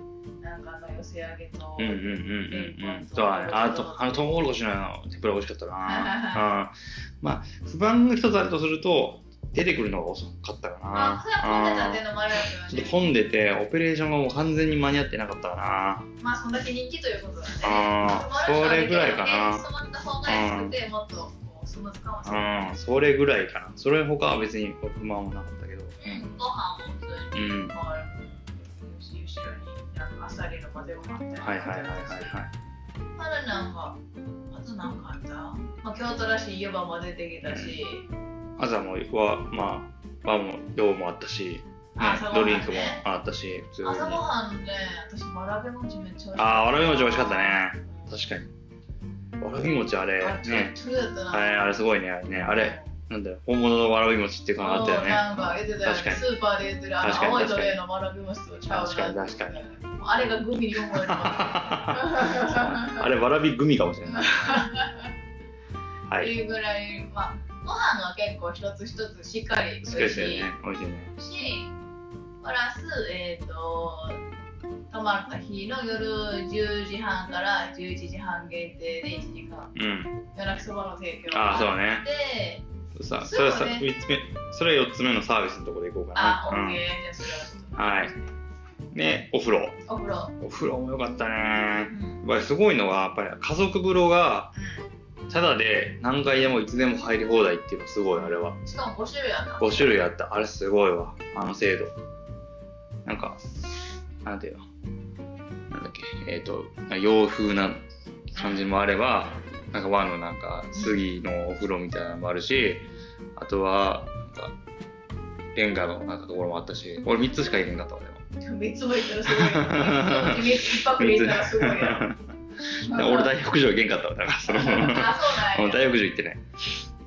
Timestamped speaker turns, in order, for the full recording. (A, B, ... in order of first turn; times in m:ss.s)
0:00.4-0:04.4 A
0:01.8-0:12.0 B
0:05.8-0:06.5 A
0:10.9-0:13.1 A
0:12.7-0:16.0 B
0:16.2-0:22.7 A
0:17.6-0:19.6 B
0:20.2-0:20.7 B
0:22.2-0:26.2 B
0:26.0-0:32.4 A
0:27.3-0:27.7 B
0:31.4-0:32.5 B
0:33.2-0:34.0 A
0:34.5-0:38.1 A
0:37.4-0:37.8 B
0:38.6-0:44.2 B
0:42.0-0:43.0 A
0:43.8-0:48.3 A
0:46.3-0:48.5 B
0:49.4-0:50.7 B
0:50.2-0:51.7 A
0:51.3-0:56.2 B
0:52.4-0:52.9 A
0:54.6-1:03.0 A
0:57.0-0:57.8 B
0:58.7-0:59.6 B
1:00.8-1:04.6 B
1:04.0-1:05.1 A
1:06.2-1:10.5 A
1:09.8-1:11.1 B
1:11.2-1:11.7 A
1:12.4-1:14.2 A
1:14.9-1:19.7 A
1:19.7-1:20.1 B
1:20.3-1:22.6 A
1:21.3-1:22.0 B
1:23.0-1:26.8 B
1:23.2-1:23.8 A
1:26.1-1:28.3 A
1:27.8-1:28.1 B
1:28.9-1:29.8 B
1:29.8-1:30.3 A
1:30.4-1:34.5 B
1:31.8-1:32.2 A
1:34.5-1:34.8 A
1:35.3-1:38.6 B
1:38.2-1:40.0 A
1:39.6-1:41.9 B
1:43.0-1:43.4 B
1:44.2-1:44.6 B
1:45.7-1:54.5 B
1:48.3-1:49.4 A
1:50.7-1:51.0 A
1:55.5-1:58.2 B
1:58.4-2:02.1 A
1:59.3-2:02.2 B
2:02.7-2:06.4 B
2:02.8-2:03.3 A
2:04.4-2:06.0 A